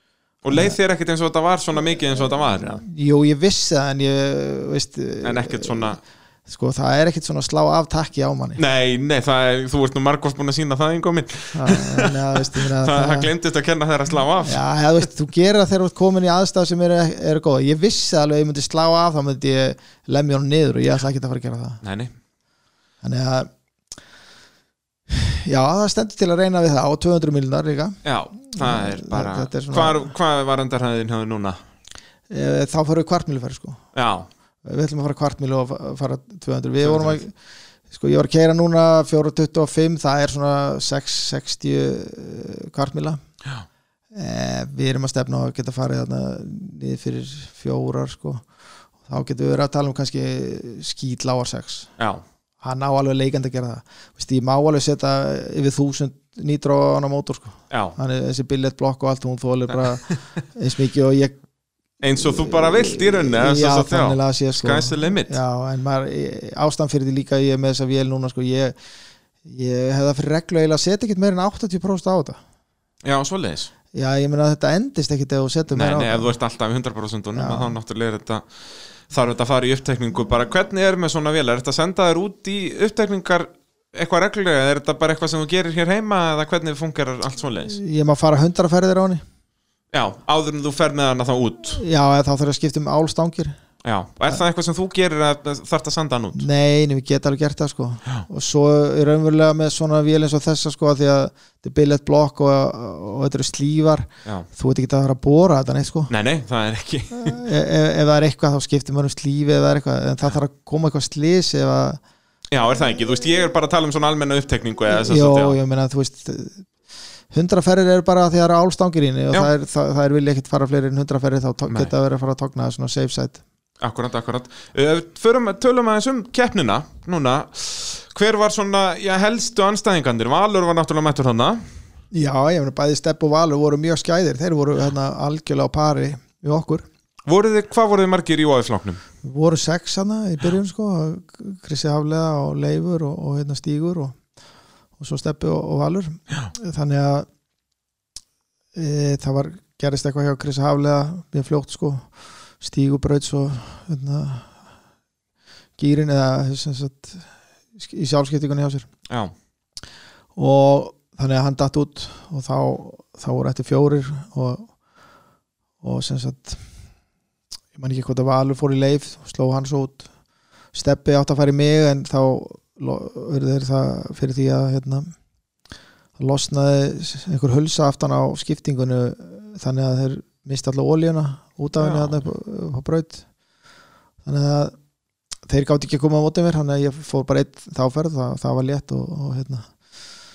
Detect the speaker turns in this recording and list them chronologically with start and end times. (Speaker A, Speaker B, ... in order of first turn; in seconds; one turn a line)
Speaker A: 0.4-2.8
Speaker B: 0.5-0.8
Speaker B: 2.8-8.6
Speaker A: 5.2-6.0
Speaker A: 8.6-14.6
Speaker B: 11.5-13.3
Speaker B: 14.4-21.8
Speaker A: 21.8-22.1
Speaker B: 23.0-23.5
Speaker B: 25.1-30.1
Speaker A: 28.0-31.6
Speaker B: 32.3-33.8
Speaker A: 33.9-34.3
Speaker B: 34.6-37.3
Speaker A: 36.8-37.2
Speaker B: 37.9-43.2
Speaker B: 44.1-48.5
Speaker B: 49.0-51.9
Speaker A: 52.0-52.2
Speaker B: 52.6-61.4
Speaker A: 57.7-58.0
Speaker A: 59.7-60.1
Speaker A: 62.0-65.4
Speaker B: 62.2-68.8
Speaker B: 69.5-72.4
Speaker A: 73.0-73.7
Speaker B: 73.9-76.3
Speaker A: 75.7-78.5
Speaker B: 77.3-77.8
Speaker A: 79.1-87.8
Speaker B: 87.7-89.2
Speaker A: 89.9-91.8
Speaker B: 91.8-93.5
Speaker A: 93.8-96.5
Speaker B: 96.4-106.1
Speaker A: 106.1-107.4
Speaker B: 107.1-112.0
Speaker A: 112.5-115.6
Speaker B: 114.9-116.7
Speaker B: 117.3-123.4
Speaker A: 123.8-131.6
Speaker B: 132.1-136.8
Speaker A: 137.3-139.0
Speaker B: 139.2-144.2
Speaker B: 145.0-147.3
Speaker B: 148.7-154.6
Speaker B: 155.8-158.9
Speaker B: 160.4-164.7
Speaker B: 165.8-166.6
Speaker B: 167.8-170.1
Speaker B: 170.7-175.1
Speaker B: 176.2-183.2
Speaker A: 181.8-182.3
Speaker B: 184.2-184.7
Speaker B: 185.5-189.7